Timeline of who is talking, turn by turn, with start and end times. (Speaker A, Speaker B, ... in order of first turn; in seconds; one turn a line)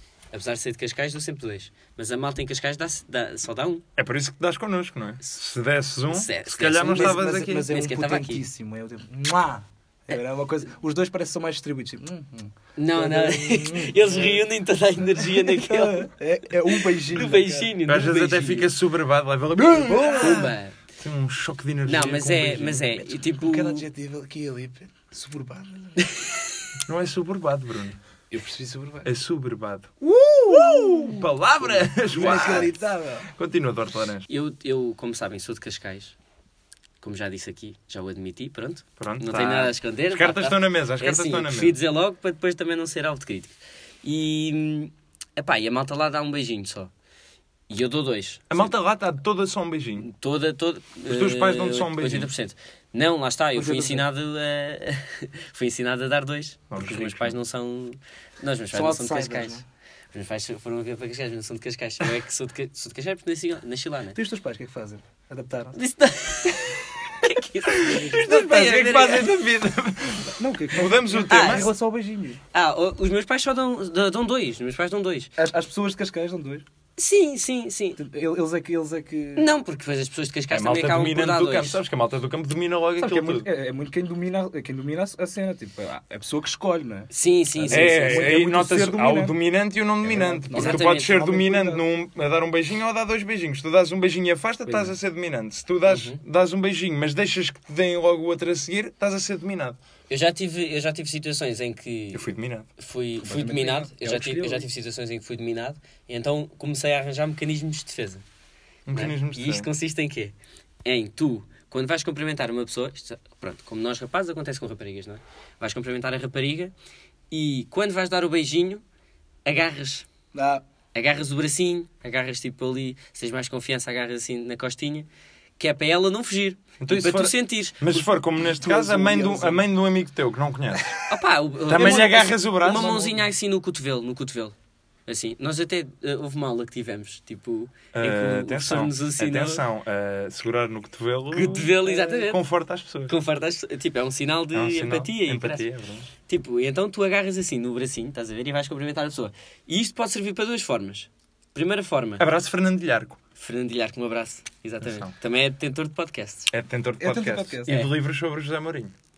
Speaker A: 0.3-3.8
Speaker B: 4.0-7.7
Speaker A: 6.1-8.4
Speaker C: 6.8-14.4
Speaker A: 12.8-16.1
Speaker C: 15.2-17.7
Speaker A: 16.6-18.7
Speaker B: 17.9-23.0
Speaker C: 19.7-20.5
Speaker A: 20.2-20.8
Speaker A: 21.9-23.8
Speaker C: 23.3-26.0
Speaker B: 26.8-28.0
Speaker C: 28.3-29.1
Speaker B: 29.0-29.9
Speaker C: 30.0-31.3
Speaker B: 30.5-34.3
Speaker C: 32.0-33.3
Speaker A: 34.3-36.1
Speaker A: 37.0-46.9
Speaker B: 39.0-41.8
Speaker A: 47.7-48.7
Speaker B: 48.5-50.1
Speaker A: 50.0-64.2
Speaker B: 51.1-52.3
Speaker C: 53.5-54.0
Speaker B: 56.7-57.4
Speaker C: 58.7-59.6
Speaker C: 64.1-65.8
Speaker A: 65.7-69.4
Speaker B: 67.8-71.7
Speaker C: 67.8-68.2
Speaker C: 70.3-72.4
Speaker A: 71.3-71.7
Speaker A: 72.5-75.3
Speaker C: 75.4-76.6
Speaker A: 77.0-78.0
Speaker C: 78.0-79.5
Speaker A: 79.3-81.8
Speaker B: 80.5-83.5
Speaker C: 83.0-89.3
Speaker A: 87.1-88.3
Speaker B: 87.7-99.8
Speaker C: 90.0-91.8
Speaker A: 90.5-91.1
Speaker C: 94.7-95.0
Speaker A: 95.9-96.2
Speaker A: 100.1-108.2
Speaker B: 102.1-102.7
Speaker C: 103.2-104.7
Speaker B: 108.9-109.7
Speaker A: 108.9-116.7
Speaker A: 117.3-118.8
Speaker A: 119.4-120.0
Speaker C: 120.3-120.6
Speaker A: 120.9-128.1
Speaker B: 126.8-130.9
Speaker C: 128.4-129.6
Speaker A: 131.1-134.5
Speaker B: 131.7-132.9
Speaker C: 131.7-133.2
Speaker A: 135.1-139.6
Speaker B: 137.9-143.1
Speaker A: 141.3-142.4
Speaker A: 143.1-145.7
Speaker B: 144.5-146.1
Speaker A: 146.2-152.2
Speaker B: 152.2-153.2
Speaker A: 153.4-156.5
Speaker B: 154.8-155.1
Speaker B: 156.5-158.9
Speaker C: 157.0-157.7